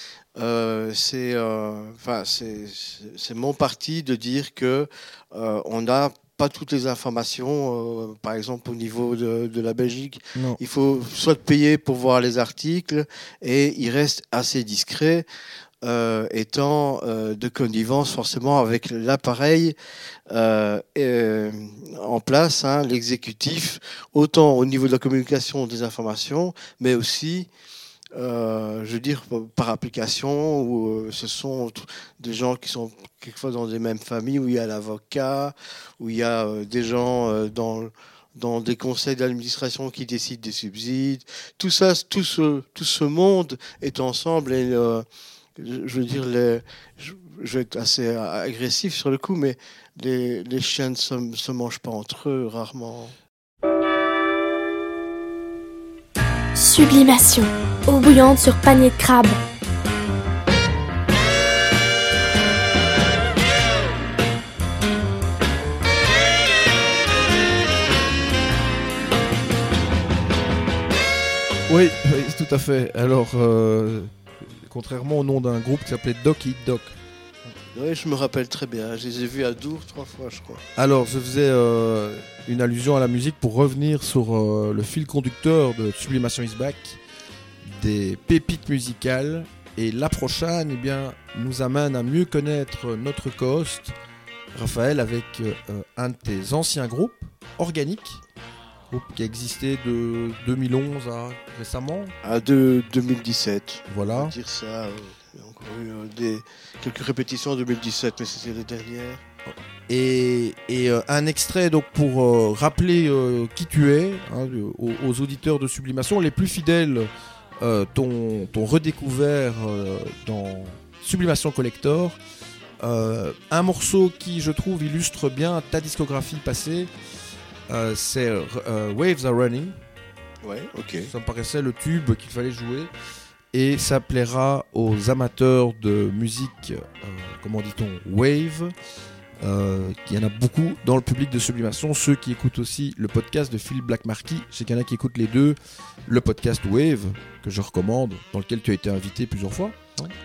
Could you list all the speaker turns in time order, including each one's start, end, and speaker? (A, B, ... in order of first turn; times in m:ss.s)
0:00.4-0:15.2 A
0:15.8-0:19.7 A
0:20.3-0:27.5 A
0:28.2-0:45.0 A
0:45.6-0:53.1 A
0:56.5-0:59.4 B
1:11.7-1:17.0 C
1:17.7-1:20.6 A
1:20.8-1:27.0 C
1:27.6-1:33.9 C
1:34.5-1:38.2 C
1:38.9-1:42.1 C
1:42.2-1:49.2 A
1:43.9-1:44.3 C
1:49.9-2:02.2 C
2:02.8-2:06.9 C
2:07.7-2:09.8 C
2:10.4-2:11.1 A
2:11.1-2:12.9 C
2:13.5-2:18.7 C
2:19.4-2:30.1 C